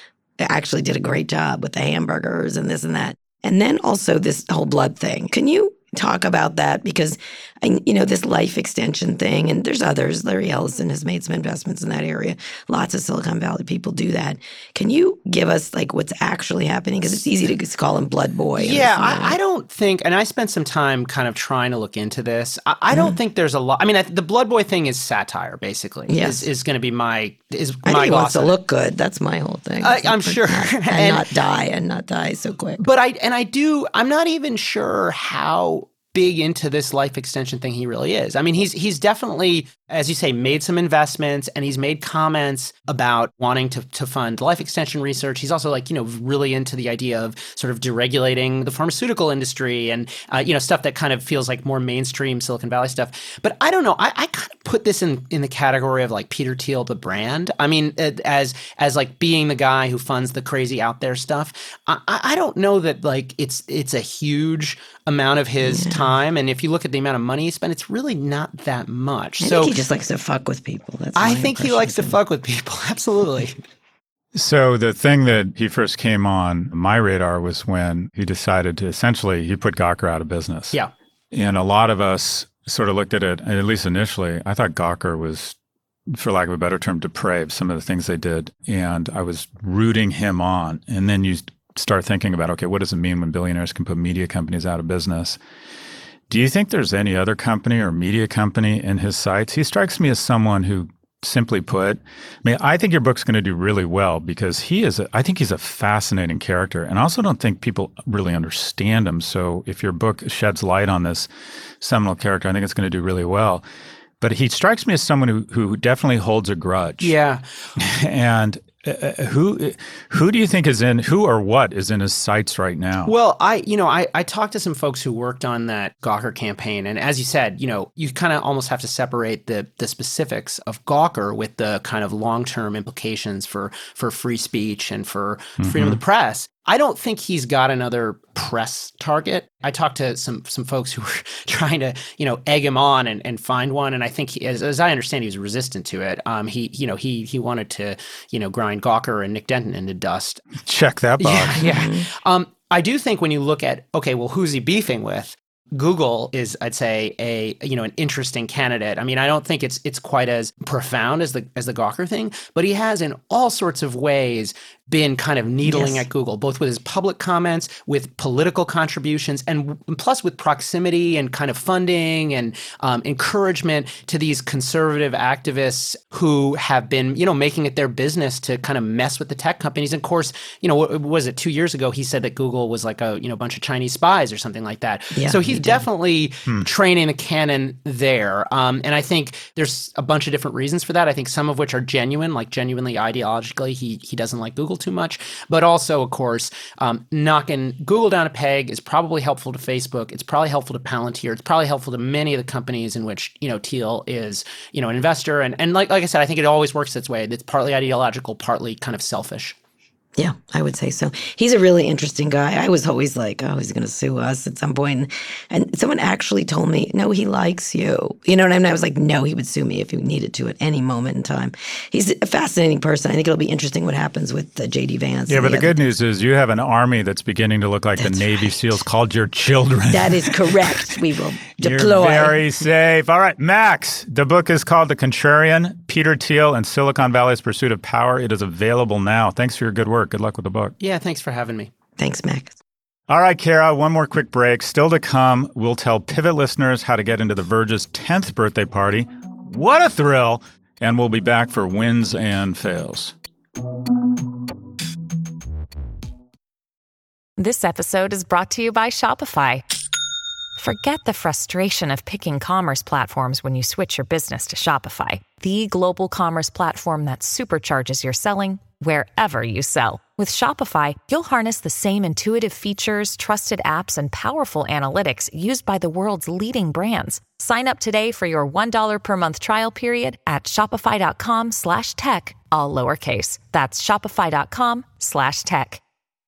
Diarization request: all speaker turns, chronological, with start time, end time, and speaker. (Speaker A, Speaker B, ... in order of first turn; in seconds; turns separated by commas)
Speaker A: 0.4-19.4, Speaker B: 18.6-28.5, Speaker A: 22.9-23.2, Speaker A: 26.1-26.5, Speaker A: 27.9-32.9, Speaker B: 29.8-31.3, Speaker B: 32.8-69.8, Speaker A: 65.6-66.1, Speaker A: 69.4-72.2, Speaker B: 71.2-73.6, Speaker C: 74.3-80.8, Speaker C: 81.3-85.5, Speaker C: 86.1-95.4, Speaker C: 96.3-111.3, Speaker C: 111.8-113.6, Speaker C: 114.2-117.2, Speaker B: 117.0-117.4, Speaker C: 117.8-123.1, Speaker B: 123.1-150.4, Speaker C: 135.6-136.0, Speaker C: 150.6-151.7, Speaker B: 151.2-209.6, Speaker A: 151.6-152.1, Speaker A: 165.6-166.1, Speaker A: 185.2-185.8, Speaker A: 210.2-225.8, Speaker C: 225.3-230.9, Speaker A: 228.0-228.8, Speaker A: 229.9-232.5, Speaker C: 231.6-240.8, Speaker B: 240.8-241.7, Speaker A: 242.0-242.6, Speaker C: 243.1-253.1, Speaker D: 257.4-259.6, Speaker D: 260.6-285.8